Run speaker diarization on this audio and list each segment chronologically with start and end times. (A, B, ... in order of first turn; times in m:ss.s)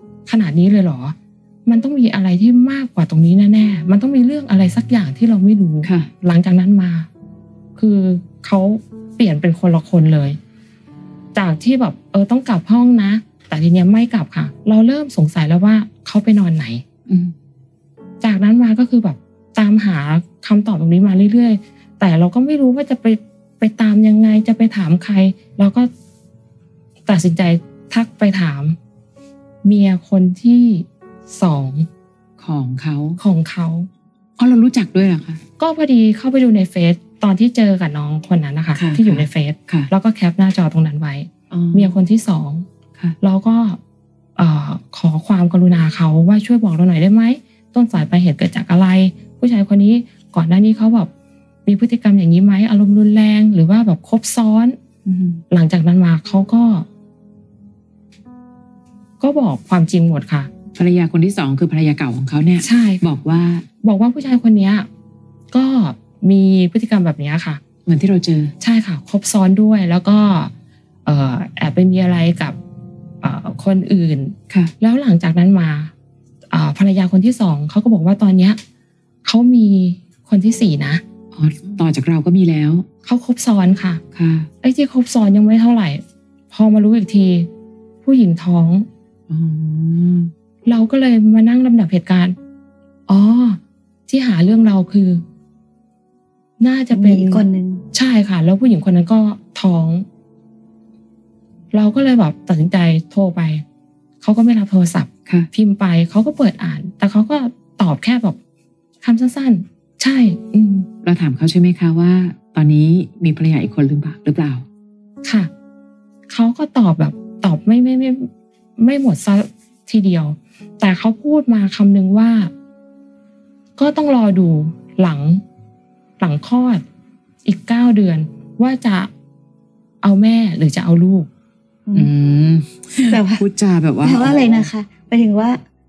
0:00.3-0:01.2 A
0:01.7-0:07.1 A
0:05.8-0:06.1 B
0:07.8-0:10.4 A
0:11.4-0:16.8 A
0:17.1-0:17.3 B
0:18.2-0:25.9 A
0:27.1-0:28.8 A
0:29.6-0:31.9 A
0:32.4-0:33.2 B
0:33.2-0:33.9 A
0:34.4-0:35.4 B
0:35.6-0:42.6 A
0:38.8-0:39.9 B
0:41.5-0:42.0 B
0:43.2-0:43.8 A
0:44.4-0:51.1 A
0:51.7-0:54.8 A
0:55.1-0:55.4 B
0:55.5-0:56.9 A
0:59.2-1:00.5 A
1:00.8-1:03.7 B
1:02.6-1:03.1 A
1:03.8-1:04.9 A
1:05.5-1:07.6 A
1:07.9-1:08.5 B
1:08.6-1:10.5 A
1:11.0-1:12.6 A
1:13.2-1:15.9 A
1:16.5-1:18.6 A
1:19.2-1:21.0 A
1:21.4-1:22.8 B
1:23.0-1:24.0 A
1:24.1-1:24.5 B
1:24.6-1:27.5 A
1:28.0-1:28.9 A
1:29.3-1:30.3 B
1:30.7-1:32.4 A
1:33.1-1:35.2 A
1:36.6-1:40.0 A
1:36.9-1:37.8 C
1:41.7-1:43.6 A
1:44.2-1:48.4 A
1:49.0-1:50.9 A
1:51.0-1:54.6 B
1:55.2-1:55.5 A
1:56.3-2:02.5 A
2:03.8-2:05.4 A
2:06.2-2:06.8 A
2:07.4-2:09.1 A
2:10.0-2:11.3 A
2:12.0-2:14.7 B
2:13.1-2:13.4 C
2:14.0-2:15.6 C